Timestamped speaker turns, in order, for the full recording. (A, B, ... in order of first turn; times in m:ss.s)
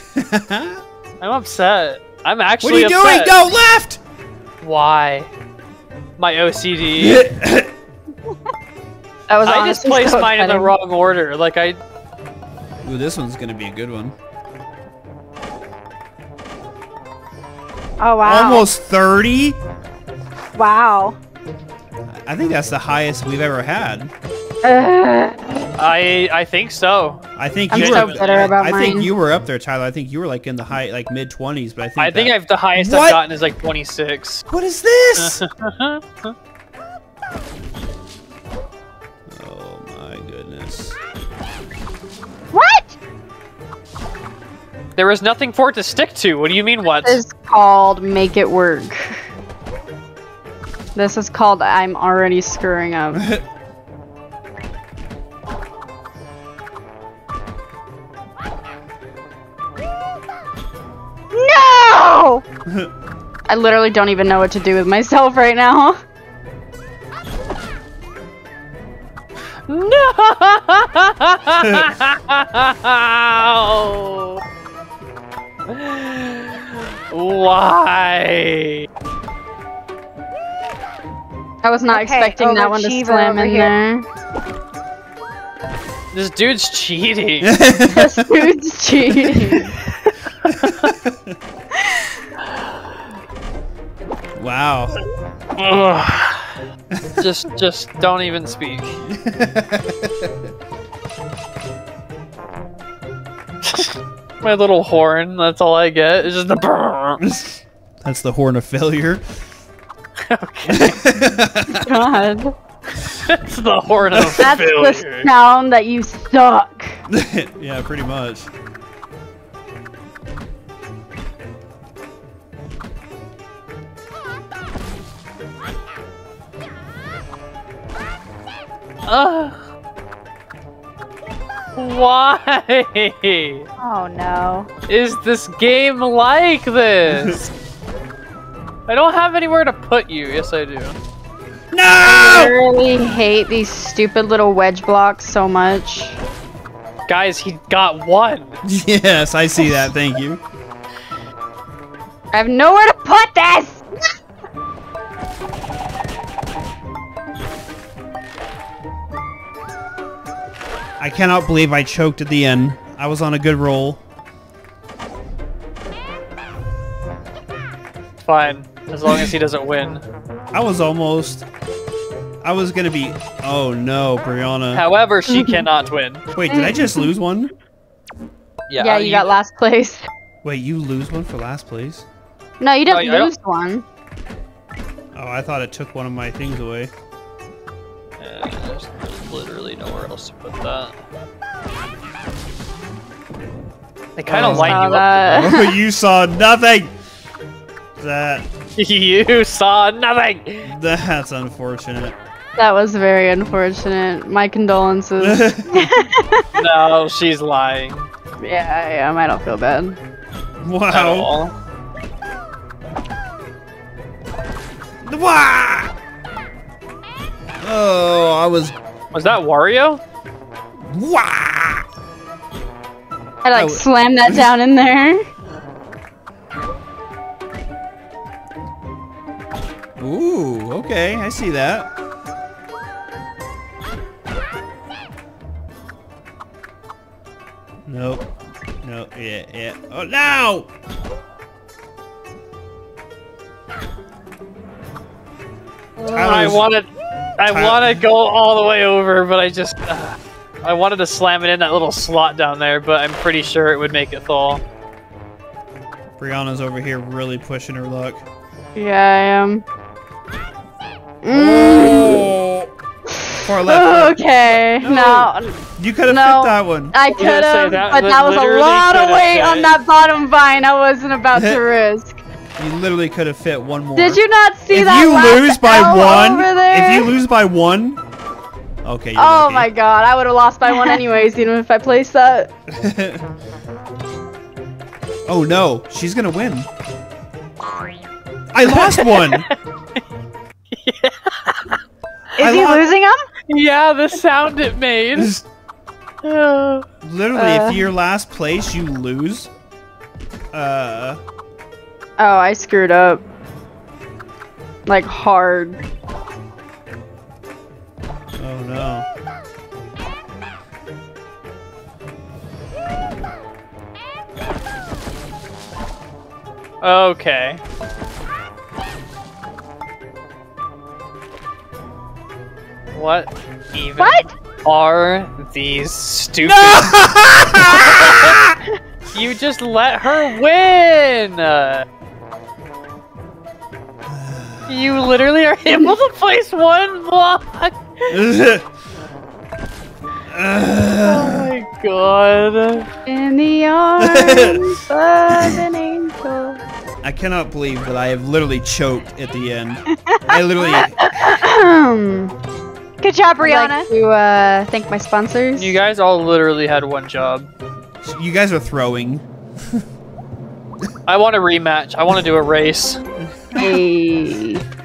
0:00.1-0:00.8 A
0:01.2-0:03.4 B
0:02.6-0:04.0 A
0:04.6-0:05.3 B
0:06.2-0:07.2 B
0:07.0-0:07.7 A
0:09.3-0:10.7 C
0:09.4-0:11.8 B
0:12.8-0:14.1 A
0:18.0-0:18.6 D
0:18.2-0:19.6 A
0:20.6-0:21.2 D
0:22.2-0:24.1 A
0:24.6-0:25.4 C
0:25.8-0:28.5 B
0:27.4-0:33.2 A
0:27.7-0:29.1 C
0:32.0-0:34.4 B
0:34.5-0:35.4 A
0:35.2-0:36.3 B
0:39.3-0:41.0 A
0:42.5-0:42.9 D
0:45.0-0:47.2 B
0:47.0-0:49.2 C
0:50.9-0:53.2 C
0:53.1-0:53.4 A
1:01.3-1:02.4 D
1:03.5-1:06.0 C
1:09.7-1:14.4 B
1:15.7-1:18.8 B
1:21.6-1:24.0 C
1:21.9-1:23.7 D
1:26.1-1:27.5 B
1:27.4-1:28.2 A
1:27.8-1:29.7 C
1:30.4-1:30.9 B
1:30.4-1:31.3 A
1:34.4-1:35.0 A
1:35.6-1:36.5 B
1:36.9-1:37.2 A
1:37.2-1:39.0 B
1:39.1-1:40.3 A
1:43.6-1:47.2 B
1:47.2-1:49.2 A
1:50.3-1:51.0 B
1:50.7-1:51.7 A
1:51.7-1:52.5 C
1:53.0-1:55.3 B
1:54.1-1:54.5 A
1:54.4-1:57.0 C
1:57.1-1:58.5 A
2:09.1-2:09.7 B
2:11.8-2:13.6 B
2:13.8-2:14.7 D
2:14.9-2:17.5 B
2:17.1-2:17.4 A
2:18.9-2:21.0 B
2:21.7-2:22.5 A
2:22.0-2:26.2 C
2:27.1-2:28.6 B
2:28.6-2:30.4 A
2:32.3-2:33.8 C
2:41.0-2:44.0 A
2:48.2-2:50.0 B
2:50.5-2:51.4 A
2:52.4-2:54.8 A
2:54.7-2:56.2 B
2:55.3-2:55.6 C
2:56.3-2:57.5 A
2:58.7-2:59.3 B
2:58.8-3:00.0 C
3:00.4-3:02.0 A
3:02.6-3:03.8 C
3:02.8-3:03.3 B
3:05.1-3:06.9 A
3:08.2-3:11.0 B
3:14.2-3:15.2 B
3:14.2-3:16.9 A
3:14.4-3:15.8 C
3:18.0-3:18.4 A
3:18.8-3:20.7 B
3:20.6-3:22.1 A
3:22.6-3:26.4 C
3:25.2-3:25.9 A
3:26.5-3:28.1 B
3:28.4-3:30.0 C
3:30.6-3:31.3 A
3:30.9-3:31.5 B
3:35.0-3:35.9 A
3:37.6-3:38.8 A
3:39.1-3:40.0 B
3:40.9-3:41.8 A
3:43.4-3:45.2 C
3:43.5-3:44.5 A
3:50.0-3:51.9 A
3:57.9-3:58.3 A
3:58.8-4:00.7 A
4:06.0-4:14.6 B
4:06.1-4:06.6 A
4:07.4-4:08.0 A
4:16.2-4:18.2 A
4:18.8-4:19.6 C
4:21.2-4:22.3 C
4:21.3-4:22.7 A
4:23.3-4:32.2 C
4:23.4-4:27.0 A
4:27.1-4:29.7 B
4:31.3-4:31.6 A
4:32.6-4:38.0 A
4:33.9-4:37.1 C
4:38.8-4:39.7 A
4:39.1-4:42.5 C
4:42.7-4:43.2 A
4:45.3-4:46.7 A
4:48.5-4:49.5 A
4:48.6-4:49.5 B
4:50.7-4:51.8 B
4:52.4-4:53.2 D
4:52.4-4:52.9 A
4:53.5-4:55.3 B
4:55.1-4:55.4 A
4:56.2-4:56.8 B
4:57.0-4:59.5 A
4:57.3-4:57.8 C
5:00.5-5:01.2 A
5:02.2-5:03.2 C
5:04.8-5:05.8 C
5:08.4-5:09.1 A
5:16.8-5:17.6 B
5:22.9-5:27.0 B
5:24.0-5:24.3 D
5:26.4-5:28.6 A
5:27.6-5:28.4 B
5:29.1-5:31.8 B
5:34.1-5:34.8 A
5:34.7-5:38.2 B
5:38.1-5:38.6 A
5:40.3-5:41.5 A
5:41.0-5:42.9 B
5:43.0-5:46.6 C
5:44.0-5:44.6 A
5:47.0-5:51.0 A
5:51.1-5:52.3 C
5:53.0-5:53.9 D
5:53.4-5:55.8 C
5:55.5-5:57.5 B
5:58.0-5:59.8 A
6:01.1-6:03.0 B
6:03.6-6:04.6 C